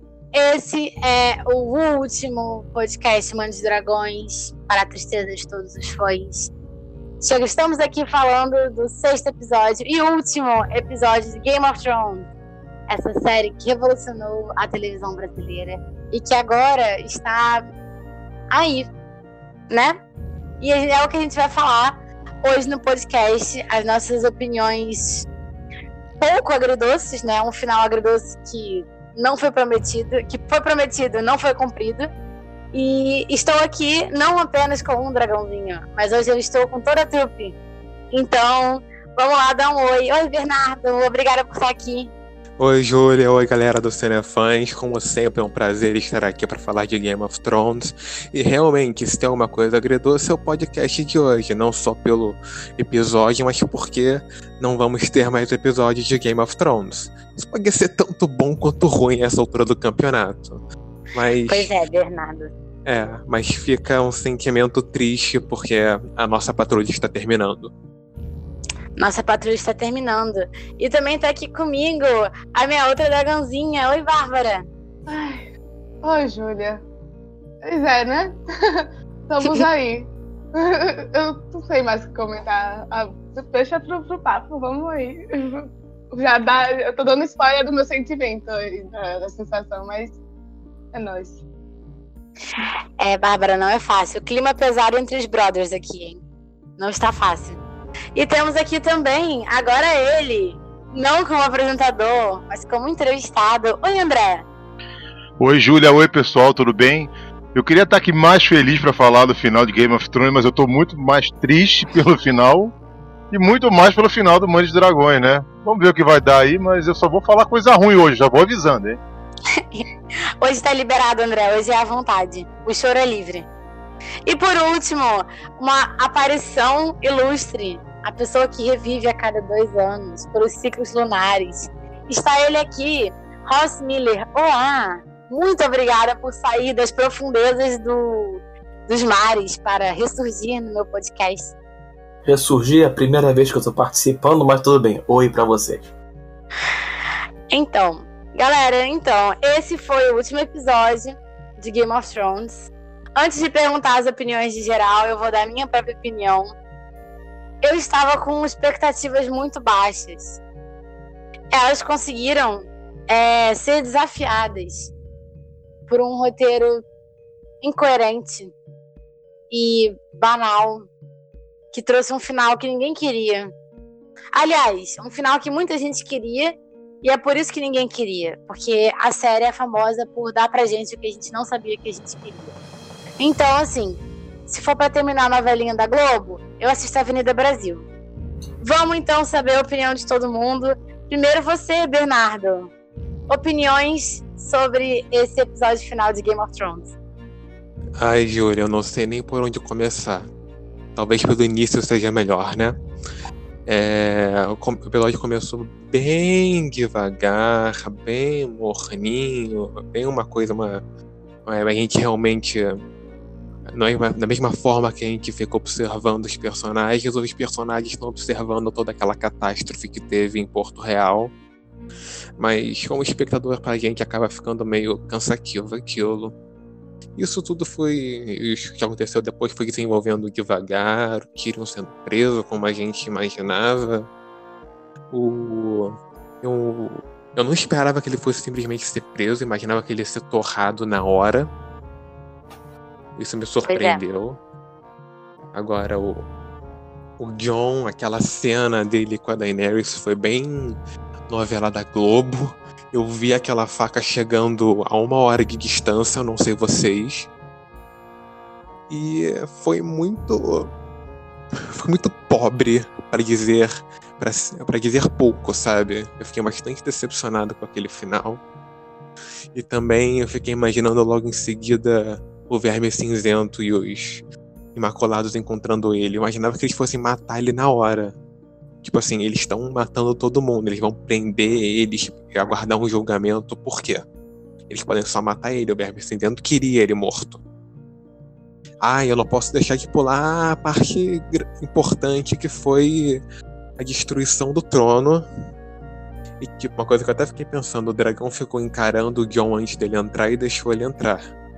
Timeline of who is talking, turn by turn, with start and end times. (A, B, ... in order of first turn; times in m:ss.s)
0:00.3-0:06.5 A
0:07.2-0:12.3 A
0:12.9-0:17.6 A
0:18.5-0:18.9 A
0:19.7-0:20.0 A
0:20.6-0:25.3 A
0:26.2-0:32.1 A
0:32.7-0:37.6 A
0:38.1-0:42.1 A
0:42.6-1:00.6 B
1:01.1-1:01.7 B
1:01.5-1:02.5 A
1:02.8-1:07.7 B
1:09.0-1:14.7 A
1:15.1-1:15.5 C
1:16.0-1:16.8 C
1:17.6-1:30.2 C
1:30.9-1:31.4 C
1:32.6-1:36.2 A
1:36.8-1:37.6 A
1:38.1-1:44.4 A
1:45.4-1:52.7 D
1:53.3-1:59.0 D
1:59.6-1:59.8 A
2:00.4-2:03.5 A
2:04.2-2:21.5 A
2:22.2-2:25.9 E
2:27.5-2:36.5 A
2:37.6-2:40.4 A
2:41.5-2:44.9 A
2:45.9-2:46.8 A
2:47.6-2:48.5 A
2:49.5-2:50.9 A
2:51.7-2:53.5 A
2:54.3-3:02.5 A
3:03.2-3:07.9 A
3:08.6-3:12.7 A
3:13.3-3:16.9 A
3:18.0-3:20.3 B
3:20.9-3:22.8 B
3:23.6-3:30.8 B
3:31.4-3:32.8 B
3:33.7-3:41.3 B
3:42.4-3:46.4 B
3:47.1-3:54.1 B
3:55.1-4:01.5 B
4:03.2-4:04.4 B
4:03.6-4:04.0 A
4:05.5-4:06.3 B
4:07.2-4:10.8 B
4:11.3-4:17.3 B
4:18.9-4:20.7 B
4:21.6-4:28.4 B
4:29.5-4:34.2 B
4:34.7-4:38.1 B
4:38.8-4:44.0 B
4:44.7-4:47.4 B
4:48.8-4:53.2 B
4:53.8-4:55.3 B
4:56.4-5:01.2 B